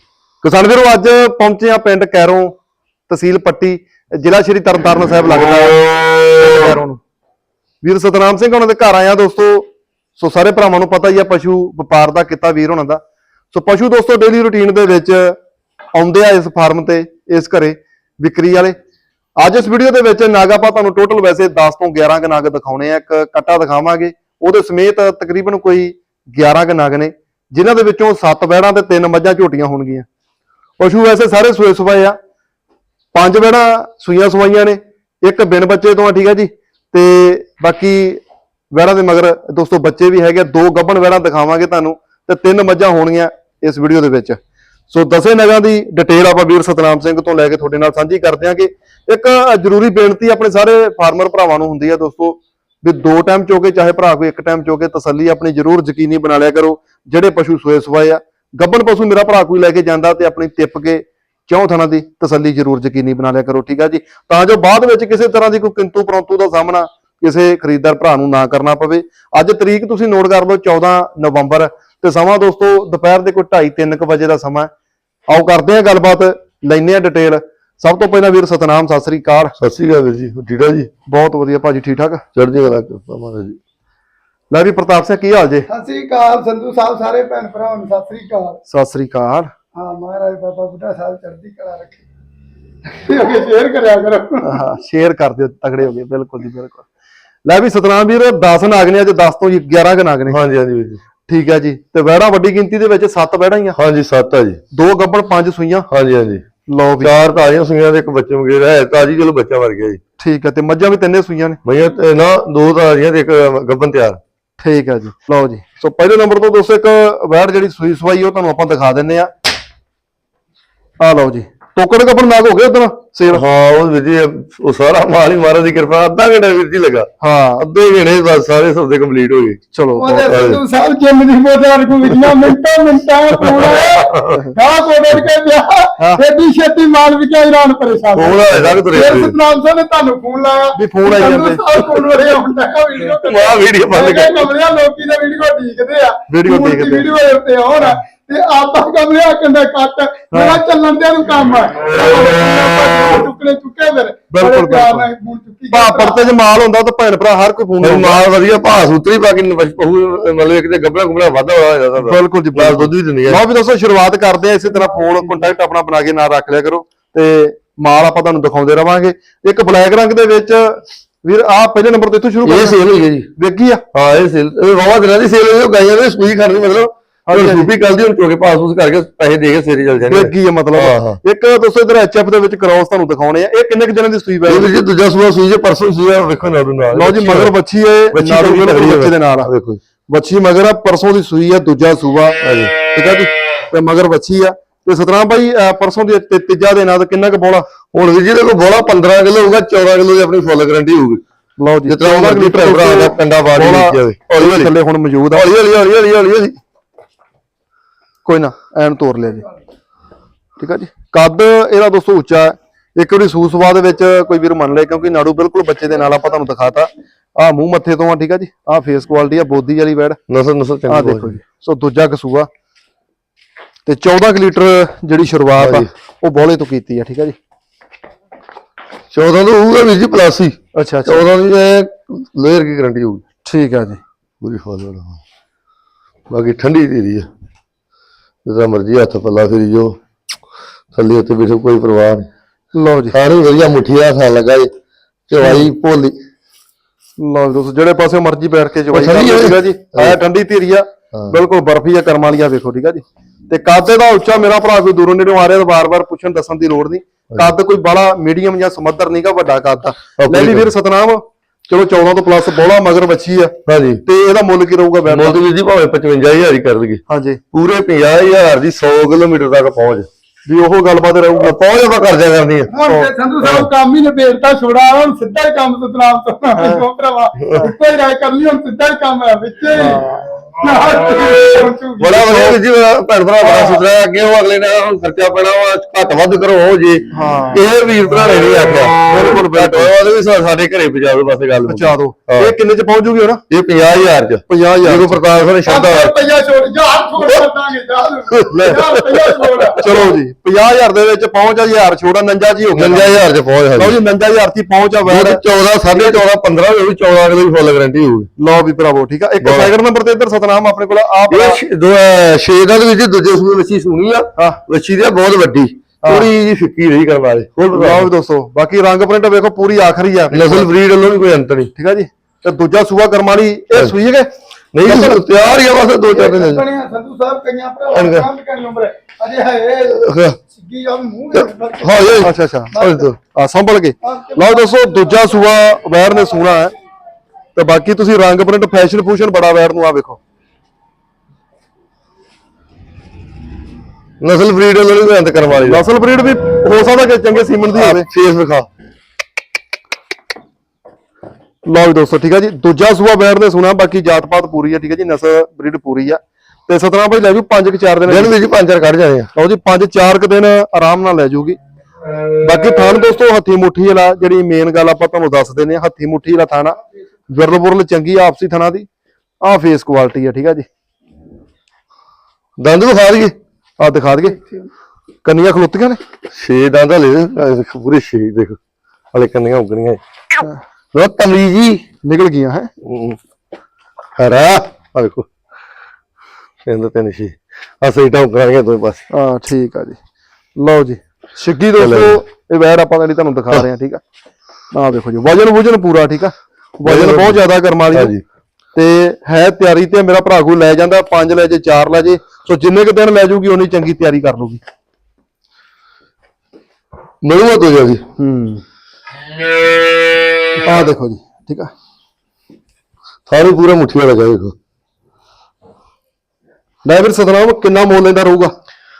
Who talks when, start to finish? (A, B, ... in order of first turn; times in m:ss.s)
0:00.4-0:02.6 A
0:03.1-0:07.0 A
0:07.8-0:15.4 A
0:16.0-0:18.8 A
0:19.4-0:30.0 A
0:30.8-0:32.2 A
0:33.1-0:44.4 A
0:44.9-1:14.7 A
1:15.3-1:19.5 A
1:19.6-1:20.9 B
1:21.1-1:22.2 A
1:22.3-1:23.6 B
1:24.5-1:25.7 A
1:25.7-1:28.6 C
1:28.7-1:29.5 A
1:29.8-1:32.0 C
1:32.9-1:34.6 C
1:34.4-1:36.9 A
1:37.4-1:40.4 A
1:40.3-1:41.0 B
1:41.3-1:43.8 A
1:43.8-1:44.6 B
1:44.7-1:45.9 A
1:45.9-1:46.4 B
1:46.7-1:47.1 A
1:47.0-1:50.0 B
1:50.2-1:51.6 A
1:51.6-1:54.2 B
1:54.6-1:59.3 A
2:01.0-2:03.4 A
2:03.3-2:09.6 B
2:07.2-2:07.6 A
2:09.7-2:10.4 A
2:10.0-2:36.3 C
2:10.2-2:10.6 B
2:13.4-2:14.4 B
2:18.2-2:19.4 B
2:20.8-2:21.6 A
2:23.2-2:24.5 B
2:26.3-2:27.1 A
2:30.3-2:30.6 A
2:34.3-2:35.1 A
2:35.7-2:38.2 A
2:37.8-2:43.4 B
2:42.0-2:52.8 A
2:52.4-2:53.3 B
2:53.3-2:53.8 A
2:53.9-3:01.2 B
2:57.3-2:57.7 A
3:00.1-3:04.7 A
3:04.5-3:07.5 B
3:06.9-3:09.5 A
3:08.1-3:09.8 B
3:10.1-3:17.7 A
3:12.4-3:12.7 B
3:17.9-3:21.2 B
3:21.6-3:25.5 A
3:21.8-3:24.7 B
3:25.3-3:26.6 B
3:28.2-3:29.5 A
3:30.6-3:40.2 A
3:40.3-3:41.4 B
3:40.9-3:42.5 A
3:43.8-3:47.4 A
3:45.6-3:45.9 B
3:49.1-3:53.2 B
3:50.8-3:51.2 A
3:53.5-3:54.0 A
3:54.4-3:55.2 B
3:56.3-3:57.3 B
3:58.4-4:00.0 B
4:00.9-4:02.3 B
4:02.7-4:03.2 A
4:03.1-4:04.7 B
4:05.3-4:06.2 B
4:05.4-4:05.7 A
4:07.2-4:25.4 A
4:08.9-4:10.2 B
4:20.2-4:20.7 B
4:23.7-4:24.0 B
4:25.1-4:27.0 B
4:27.1-4:27.4 A
4:27.5-4:30.1 B
4:30.5-4:31.6 A
4:31.4-4:32.7 B
4:32.7-4:42.6 C
4:33.4-4:33.7 B
4:36.6-4:36.8 A
4:39.7-4:40.3 A
4:42.0-4:52.5 B
4:43.4-4:43.8 A
4:47.1-4:47.6 A
4:49.1-4:49.9 A
4:51.7-4:53.4 A
4:53.5-4:56.2 B
4:54.5-4:55.2 A
4:55.7-5:00.1 C
4:58.3-5:00.1 B
4:59.8-5:03.2 A
5:02.8-5:04.0 B
5:03.8-5:06.2 A
5:05.1-5:08.3 B
5:08.4-5:11.6 A
5:09.4-5:09.7 B
5:11.3-5:18.1 B
5:14.4-5:14.6 A
5:16.0-5:16.3 A
5:17.7-5:20.7 A
5:20.3-5:21.7 B
5:21.8-5:24.3 A
5:24.7-5:26.6 B
5:24.8-5:25.2 A
5:26.1-5:33.1 C
5:27.9-5:28.3 B
5:29.9-5:30.4 B
5:31.3-5:33.2 B
5:32.2-5:32.8 A
5:33.3-5:36.7 A
5:34.0-5:35.4 C
5:37.6-5:40.2 A
5:44.2-5:45.8 B
5:45.6-5:48.1 A
5:47.8-5:48.7 B
5:51.7-5:58.3 A
5:58.1-5:59.3 B
5:59.3-6:01.6 A
6:02.4-6:06.8 A
6:07.3-6:08.9 A
6:09.4-6:10.7 A
6:12.6-6:13.4 B
6:13.8-6:14.4 A
6:15.2-6:16.0 A
6:16.3-6:18.6 B
6:19.1-6:21.8 B
6:22.0-6:22.7 A
6:22.8-6:23.2 B
6:24.2-6:25.3 B
6:26.7-6:29.0 B
6:29.1-6:30.0 A
6:30.6-6:34.0 A
6:31.8-6:32.2 B
6:34.7-6:38.1 A
6:36.8-6:37.4 B
6:37.9-6:38.2 B
6:38.8-6:44.6 A
6:47.2-6:48.0 B
6:48.2-6:48.6 A
6:50.6-6:51.7 A
6:53.3-6:54.5 B
6:56.8-6:58.5 A